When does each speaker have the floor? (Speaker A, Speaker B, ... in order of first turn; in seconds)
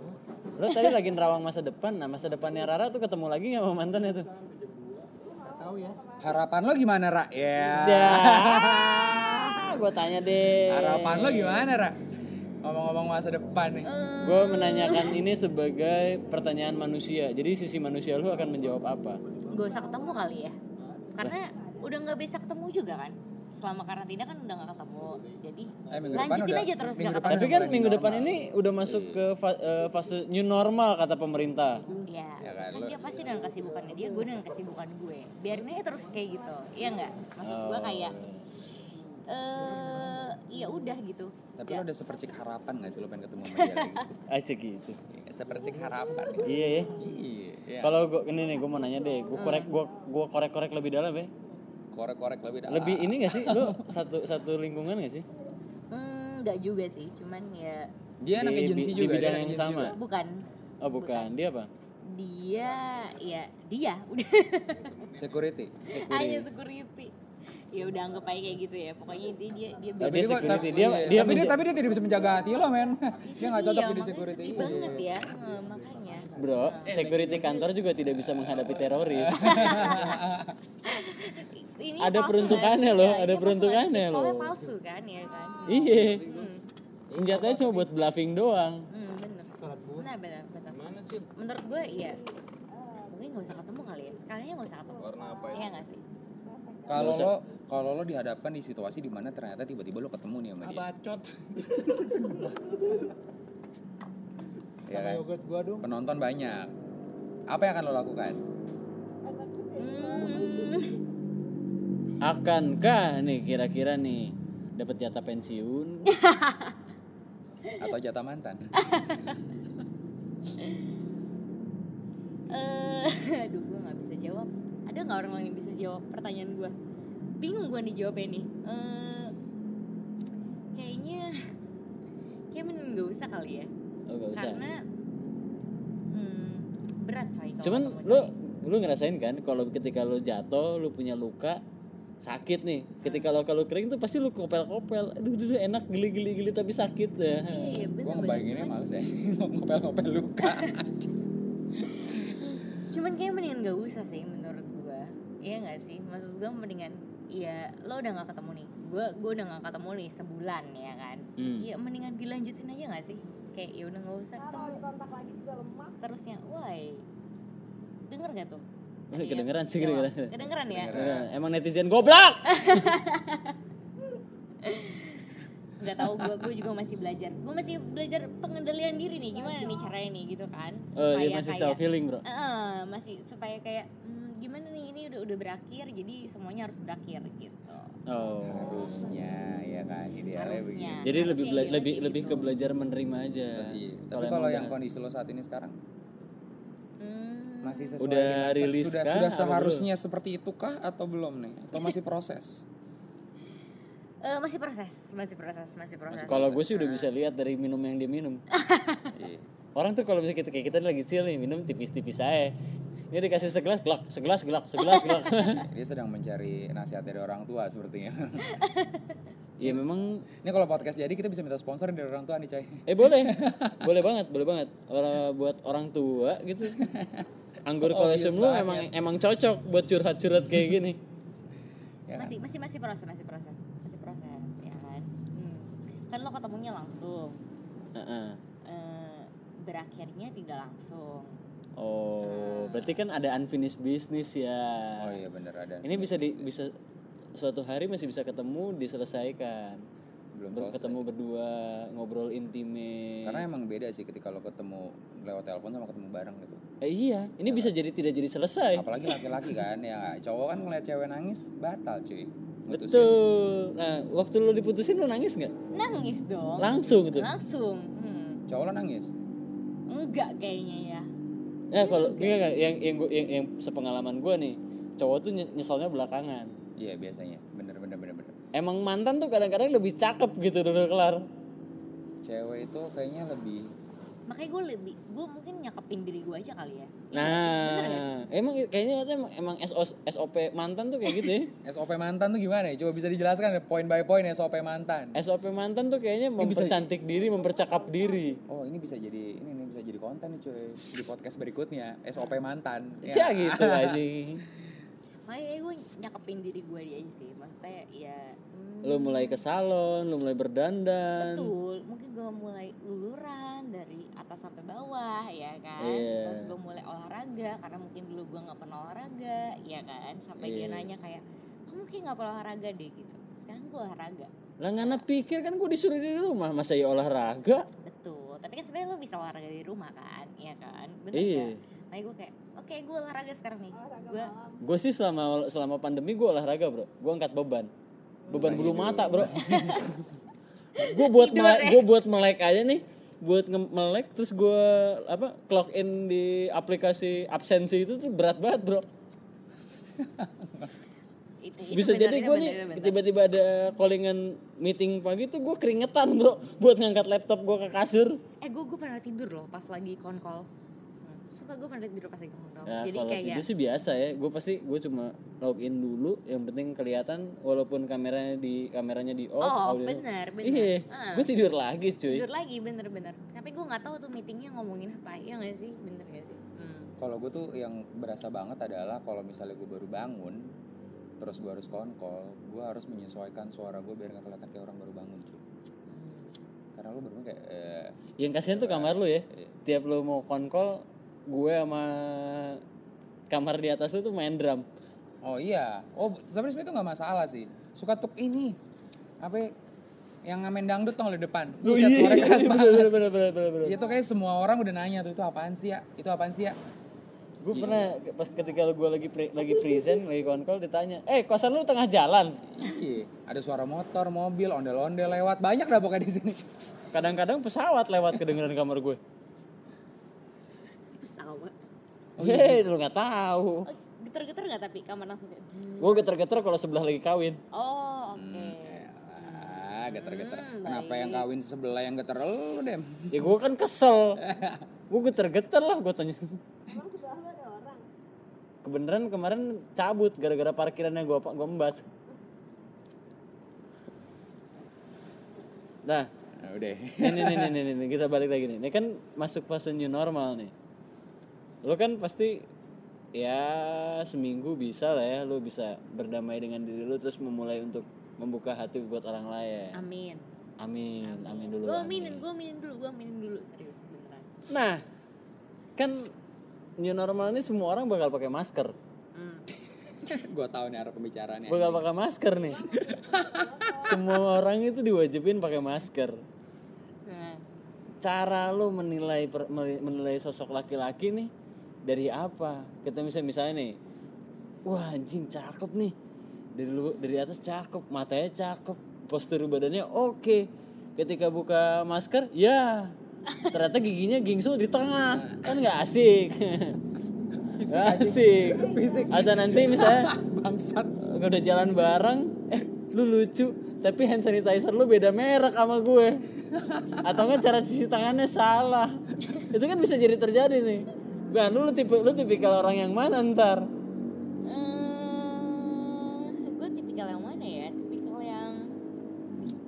Speaker A: 0.6-4.3, 7.7-11.7, 14.2-19.2, 27.3-31.9, 37.4-38.4, 44.3-45.0, 46.4-47.0, 47.8-51.3, 52.7-55.2, 58.3-60.0, 60.8-61.7, 65.9-66.5, 70.0-71.6, 76.3-80.0, 82.0-84.5, 85.7-86.3, 87.1-88.9, 96.9-97.3, 112.2-116.1, 134.1-134.6, 137.6-141.6, 142.2-147.8, 161.4-161.7, 169.1-170.4, 170.9-172.9, 180.9-182.2, 188.1-188.9, 191.0-194.8, 198.0-199.9, 206.2-208.4, 209.7-212.5, 213.1-215.7, 219.6-220.2, 222.9-226.8, 227.6-231.0, 237.9-238.4, 241.8-245.2, 245.8-246.7, 247.3-249.8, 250.5-253.4, 256.8-259.1, 262.7-265.5, 266.6-267.3, 271.7-276.5, 278.5-281.2, 287.1-291.5, 295.1-298.4, 303.0-304.4, 308.8-311.5, 315.8-316.5, 320.4-320.9, 324.6-327.7, 331.1-331.6, 334.6-337.7, 338.3-339.8, 340.8-348.9, 351.7-358.2, 362.7-372.2, 388.2-392.6, 393.3-394.6, 401.6-403.8, 407.4-412.4, 416.9-419.0, 422.2-423.7, 425.8-427.4, 433.1-434.2, 434.9-436.4, 438.6-441.8, 447.0-450.5, 451.6-452.4, 453.1-459.8, 460.6-462.2, 464.5-464.8, 465.8-466.1, 466.8-468.7, 471.5-472.7, 473.8-476.2, 478.0-481.3, 481.8-483.8, 484.6-485.9, 486.5-496.8, 497.6-500.1, 501.0-506.3, 507.0-513.7
Speaker B: 0.7-1.0, 13.8-15.2, 19.5-20.6, 21.1-27.6, 32.0-38.2, 39.3-41.8, 43.5-44.0, 49.3-49.7, 55.9-57.9, 59.9-60.4, 60.9-61.3, 62.1-65.1, 65.9-67.1, 67.7-71.1, 73.2-77.0, 79.3-80.2, 80.8-86.6, 88.9-92.2, 93.1-96.0, 109.8-111.0, 116.1-116.8, 118.8-119.4, 122.5-126.7, 127.4-129.3, 130.7-131.3, 132.5-133.7, 134.3-134.8, 136.1-138.3, 143.0-143.3, 147.5-148.8, 150.4-150.7, 152.9-164.8, 166.0-167.1, 168.1-171.0, 172.4-173.6, 174.6-187.9, 190.3-192.5, 197.0-198.0, 204.2-207.1, 208.5-209.1, 214.8-215.6, 218.5-219.2, 232.2-237.4, 238.6-241.4, 242.2-243.0, 265.7-268.4, 269.9-271.1, 271.8-272.4, 284.3-288.1, 305.3-309.4, 311.2-325.0, 327.8-334.3, 338.3-338.6, 339.2-339.9, 340.8-341.8, 351.4-353.0, 358.4-360.5, 361.0-363.4, 369.4-371.3, 372.1-376.9, 385.9-386.3, 420.9-421.5, 423.6-426.0, 427.5-431.2, 459.7-460.3, 461.0-464.3, 469.1-469.5, 477.0-477.4, 514.4-518.7
Speaker C: 5.2-6.4, 21.2-21.7, 92.8-93.7, 95.0-95.7, 96.5-97.2, 109.2-110.9, 164.4-165.9, 297.1-298.4, 333.7-334.6, 436.7-437.8, 472.6-473.9, 498.6-499.1
Speaker D: 6.2-9.7, 10.7-12.0, 12.6-13.9, 25.9-29.2, 32.4-33.1, 41.6-44.1, 45.1-48.0, 51.9-54.0, 58.2-60.0, 65.2-65.9, 70.0-75.1, 78.4-80.6, 96.9-100.9, 104.9-106.7, 107.5-108.4, 117.8-118.7, 148.0-151.1, 151.8-152.6, 170.6-171.3, 176.2-176.4, 188.4-191.1, 193.5-195.8, 197.6-202.6, 206.1-206.7, 209.1-209.4, 215.7-218.5, 220.4-223.9, 226.8-227.2, 227.8-228.9, 232.1-232.3, 245.0-246.5, 250.3-251.0, 253.2-256.6, 257.4-257.7, 258.7-263.1, 268.5-269.1, 276.8-278.3, 282.2-283.7, 291.6-295.2, 296.4-296.9, 298.5-304.0, 338.4-339.6, 350.0-350.7, 377.0-380.5, 381.2-385.4, 386.7-389.5, 395.2-398.6, 399.2-399.5, 400.2-403.0, 403.6-406.6, 407.5-407.9, 412.6-416.4, 422.2-422.6, 428.1-433.3, 434.2-434.6, 446.4-447.6, 469.8-471.8, 472.8-473.5, 497.5-501.0, 506.6-507.1
Speaker E: 76.9-77.6, 85.9-86.5, 87.1-87.8, 90.7-91.3, 95.0-95.6, 100.6-102.5, 105.3-105.8